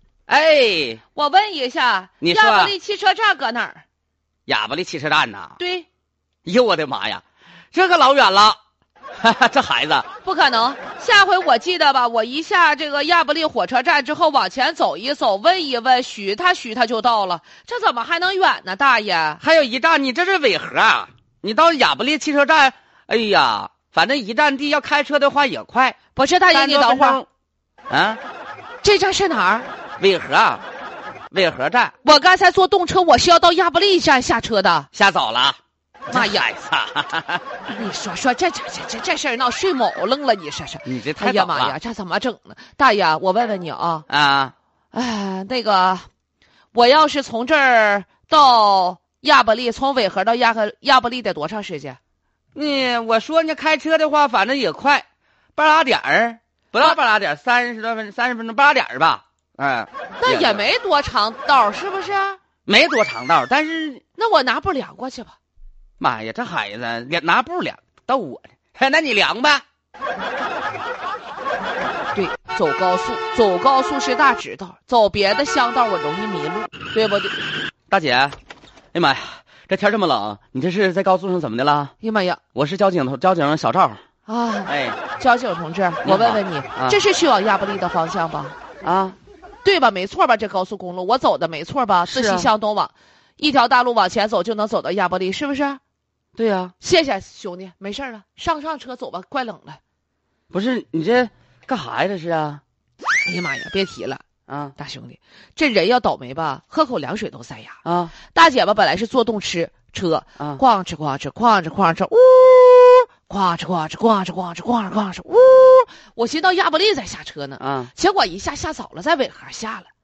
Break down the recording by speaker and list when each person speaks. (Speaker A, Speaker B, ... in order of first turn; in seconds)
Speaker A: 0.3-1.0, 2.2-2.7, 4.5-5.6, 6.5-8.6, 9.2-10.1, 19.4-26.0, 26.5-27.3, 27.9-28.2, 30.0-30.6, 31.3-31.9, 34.9-37.4, 40.9-41.8, 44.1-44.5, 52.5-60.6, 62.7-64.0, 66.0-69.6, 77.9-78.4, 78.9-81.9, 82.5-84.0, 84.7-85.0, 86.0-87.0, 88.8-89.2, 92.1-92.5, 96.4-96.7, 100.5-102.6, 104.5-104.7, 107.8-108.1, 117.6-117.9
Speaker B: 1.1-3.8, 5.6-5.9, 10.2-19.4, 26.1-27.2, 28.8-29.7, 32.0-34.9, 36.1-36.5, 37.7-44.1, 44.9-46.1, 46.7-52.0, 60.2-62.4, 64.2-65.4, 72.1-77.4, 82.0-82.4, 84.3-88.6, 89.6-95.8, 96.8-99.8, 103.2-104.2, 104.8-119.9